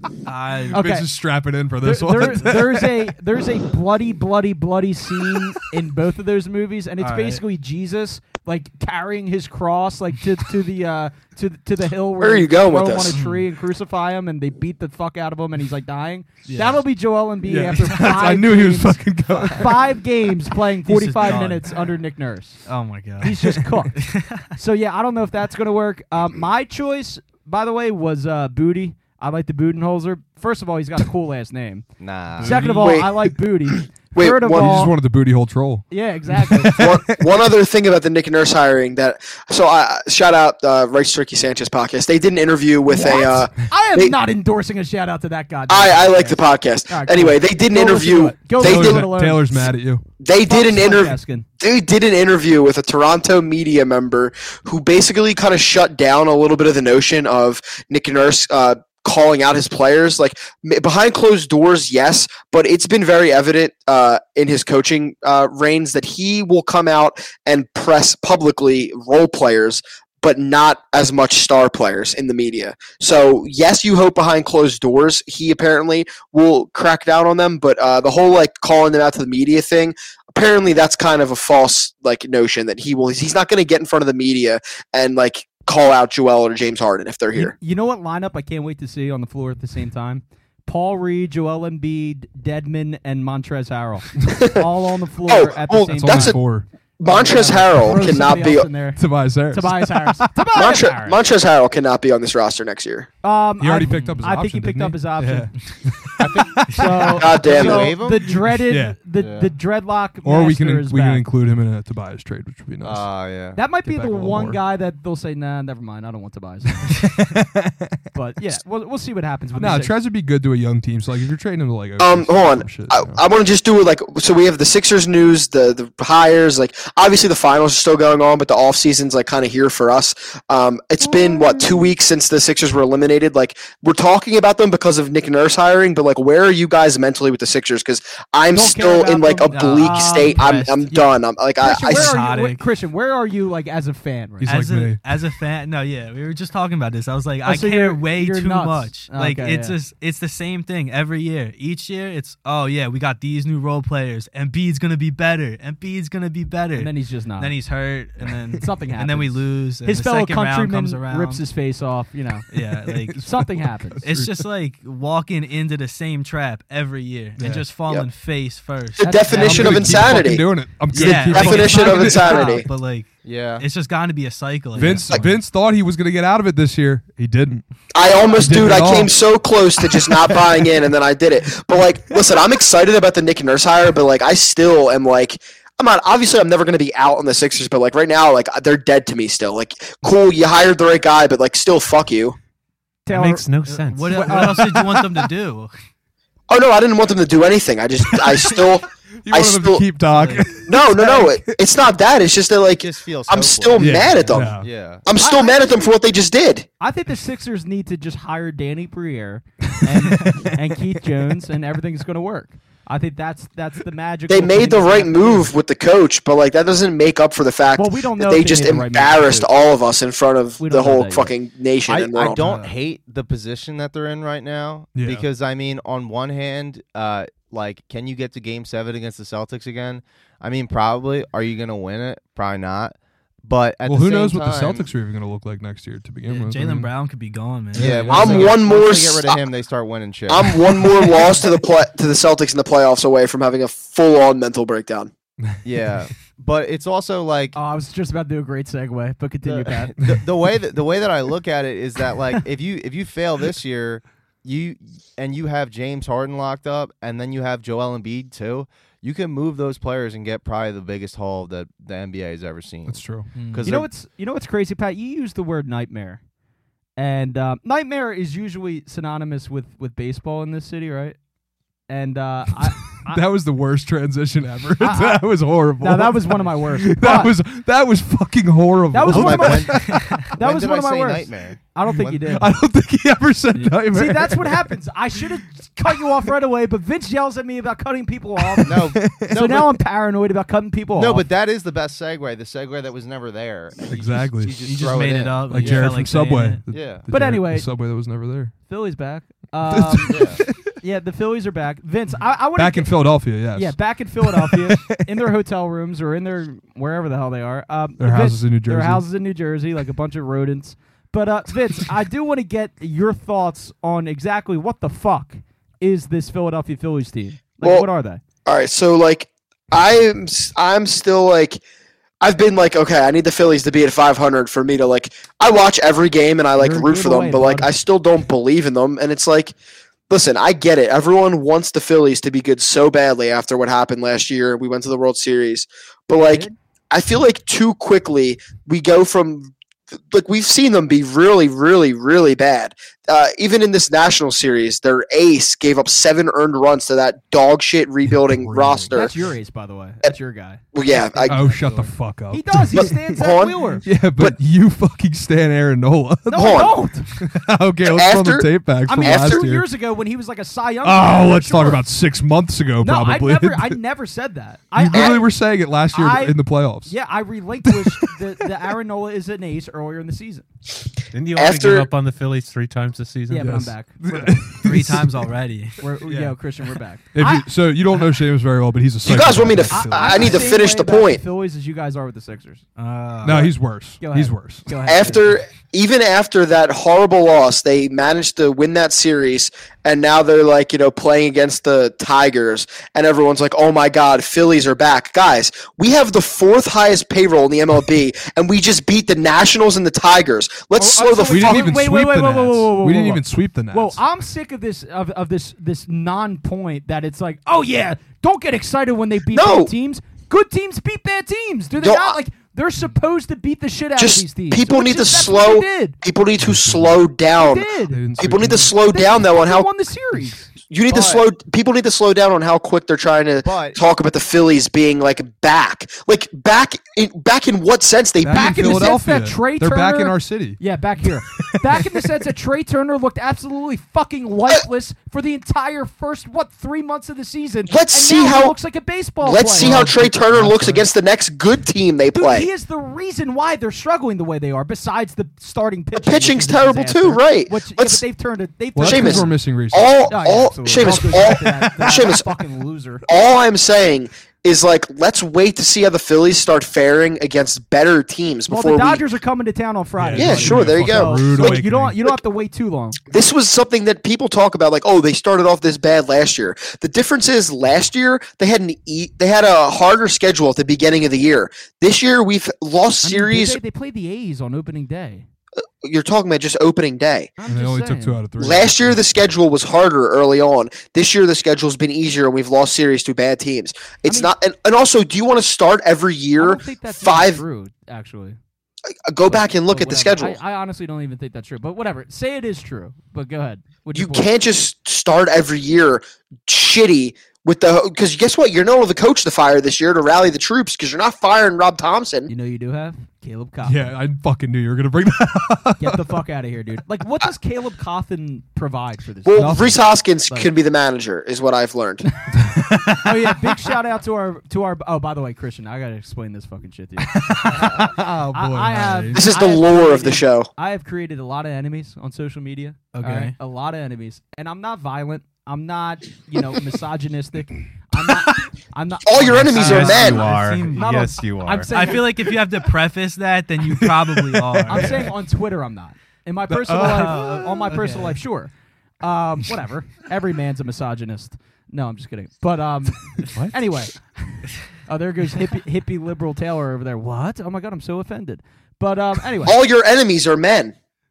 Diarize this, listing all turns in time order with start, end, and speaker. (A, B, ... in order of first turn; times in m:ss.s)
0:00.2-0:01.0 A
0:00.7-0:03.1 B
0:00.7-0:01.1 C
0:01.8-0:22.6 C
0:07.0-0:07.4 A
0:12.2-0:13.2 D
0:13.1-0:13.4 A
0:16.5-0:16.8 A
0:17.4-0:20.0 B
0:20.8-0:21.9 A
0:22.6-0:24.4 A
0:23.2-0:31.8 C
0:32.0-0:32.6 E
0:32.4-0:34.9 C
0:32.4-0:32.7 A
0:32.8-0:33.1 D
0:34.0-0:34.8 D
0:34.5-0:37.2 B
0:35.9-0:36.8 C
0:36.7-0:44.2 D
0:42.9-0:49.7 C
0:45.7-0:49.1 D
0:48.5-0:50.0 B
0:50.2-1:27.5 D
0:50.4-0:51.4 C
1:27.3-1:36.4 C
1:34.3-1:34.6 D
1:35.3-1:36.4 D
1:35.9-1:36.6 B
1:37.0-1:38.7 D
1:37.0-1:41.2 C
1:39.0-1:40.3 B
1:40.5-1:43.1 D
1:43.2-1:45.5 C
1:43.6-1:47.2 B
1:43.9-1:44.2 A
1:46.2-1:48.5 E
1:46.7-1:51.2 C
1:47.2-1:48.0 D
1:48.6-1:49.0 B
1:49.1-1:49.5 E
1:50.2-1:53.1 B
1:52.8-1:53.6 E
1:53.5-1:57.0 C
1:53.8-1:54.6 B
1:56.9-1:58.0 B
1:58.1-2:00.0 C
1:59.5-2:03.2 B
2:02.0-2:22.1 D
2:11.0-2:11.9 C
2:18.5-2:20.4 C
2:19.5-2:21.0 A
2:21.6-2:24.6 C
2:21.8-2:22.6 A
2:24.4-2:25.0 B
2:24.4-2:41.4 A
2:27.4-2:29.8 C
2:36.8-2:37.6 C
2:38.6-2:42.4 C
2:42.5-2:43.2 A
2:42.9-2:44.4 B
2:43.2-2:44.0 C
2:44.0-2:50.2 A
2:47.4-2:47.7 B
2:49.0-2:52.6 D
2:49.0-2:50.0 C
2:49.3-2:52.5 B
2:50.9-2:55.4 A
2:52.2-2:52.6 C
2:53.2-2:53.6 E
2:54.7-2:57.6 B
2:57.9-3:12.4 D
2:58.4-2:59.1 B
3:13.0-3:13.4 C
3:13.1-3:14.4 F
3:13.6-3:15.7 A
3:14.1-3:14.8 C
3:14.3-3:15.0 B
3:16.5-3:19.9 D
3:19.2-3:21.6 B
3:20.1-3:20.4 A
3:20.6-3:26.7 D
3:22.8-3:25.0 E
3:23.8-3:24.7 B
3:25.2-3:25.9 C
3:26.8-3:35.5 C
3:29.9-3:30.6 B
3:34.3-3:42.4 D
3:37.8-3:39.5 C
3:40.6-3:41.3 C
3:41.9-3:54.9 E
3:44.9-3:45.2 B
3:53.8-3:56.9 B
3:56.3-3:58.6 A
3:57.8-4:00.6 E
3:57.8-3:58.3 B
3:58.1-3:59.4 D
4:00.3-4:05.1 D
4:05.6-4:07.6 E
4:07.5-4:09.9 C
4:09.4-4:23.9 E
4:22.9-4:23.3 B
4:23.3-4:23.7 A
4:23.6-4:26.2 C
4:27.0-4:31.2 C
4:31.9-4:33.2 C
4:33.0-4:40.3 B
4:34.8-4:37.3 C
4:38.9-4:42.5 C
4:39.1-4:42.2 E
4:42.2-4:44.7 B
4:43.8-4:51.2 C
4:48.5-4:49.4 B
4:48.7-4:49.7 E
4:51.0-4:56.0 E
4:53.9-4:54.6 B
4:54.6-4:56.6 A
4:55.5-4:58.5 B
4:56.7-4:57.1 E
4:57.1-4:57.7 C
4:58.6-5:18.2 C
4:59.7-5:00.7 B
5:00.1-5:00.4 E
5:02.6-5:05.0 B
5:08.0-5:09.0 B
5:17.6-5:17.9 D
5:18.4-5:21.6 D
5:22.2-5:29.5 D
5:26.6-5:27.7 C
5:30.1-5:39.5 D
5:36.1-5:36.5 C
5:40.1-5:49.1 D
5:48.1-5:49.1 B
5:48.9-5:53.8 C
5:50.7-5:51.4 D
5:51.3-5:53.1 B
5:52.7-5:54.4 D
5:53.8-5:59.6 B
5:56.3-5:57.1 C
5:56.3-5:56.7 D
5:57.8-5:59.4 D
5:58.8-6:01.8 C
6:00.8-6:03.8 B
6:02.8-6:05.3 C
6:04.8-6:06.9 B
6:04.9-6:05.2 D
6:05.9-6:10.4 C
6:07.7-6:08.1 B
6:11.1-6:13.6 F
6:11.3-6:11.9 D
6:13.3-6:14.5 C
6:13.4-6:15.2 B
6:14.6-6:15.8 A
6:15.8-6:17.5 C
6:16.0-6:16.4 B
6:17.1-6:20.4 B
6:19.0-6:21.2 D
6:19.7-6:22.6 C
6:22.8-6:23.5 A
6:23.2-6:24.8 B
6:23.2-6:25.3 C
6:24.9-6:41.7 D
6:40.8-6:56.0 C
6:41.2-6:44.0 B
6:49.3-6:49.7 D
6:51.8-6:52.2 D
6:54.0-6:59.7 D
6:56.4-6:57.0 B
6:57.4-6:58.0 C
6:57.9-6:58.7 B
6:58.9-7:00.5 C
7:00.7-7:08.8 D
7:00.9-7:01.2 E
7:03.4-7:03.8 E
7:08.2-7:10.6 B
7:08.3-7:20.4 C
7:11.3-7:12.0 B
7:17.7-7:18.6 D
7:19.2-7:22.5 D
7:19.6-7:20.8 B
7:22.1-7:29.3 C
7:26.0-7:28.0 D
7:28.8-7:30.1 B
7:28.8-7:32.2 D
7:30.1-7:33.0 C
7:30.8-7:31.2 B
7:33.1-7:39.0 D
7:38.5-7:43.0 C
7:40.0-7:42.0 B
7:40.2-7:41.6 D
7:43.1-7:53.6 D
7:53.0-7:55.2 C
7:55.8-7:57.3 D
7:57.4-7:58.2 C
7:57.4-7:59.1 B
7:58.4-8:07.4 D
8:04.0-8:04.3 C
8:06.4-8:08.4 C
8:09.1-8:10.4 D
8:09.2-8:14.3 C
8:13.9-8:22.3 D
8:22.3-8:23.9 C
8:23.6-8:26.1 B
8:25.8-8:30.5 C
8:29.2-8:32.1 D
8:29.4-8:29.8 B
8:32.4-8:33.0 B
8:33.0-8:52.3 C
8:37.1-8:39.2 B
8:39.1-8:40.5 D
8:42.9-8:43.3 A
8:49.0-8:50.3 D
8:49.5-8:51.0 A
8:49.5-8:51.7 F
8:51.7-8:55.1 A
8:53.7-8:55.1 B
8:54.7-9:09.6 C
8:56.5-8:57.6 B
8:56.8-8:58.2 A
9:09.4-9:10.7 D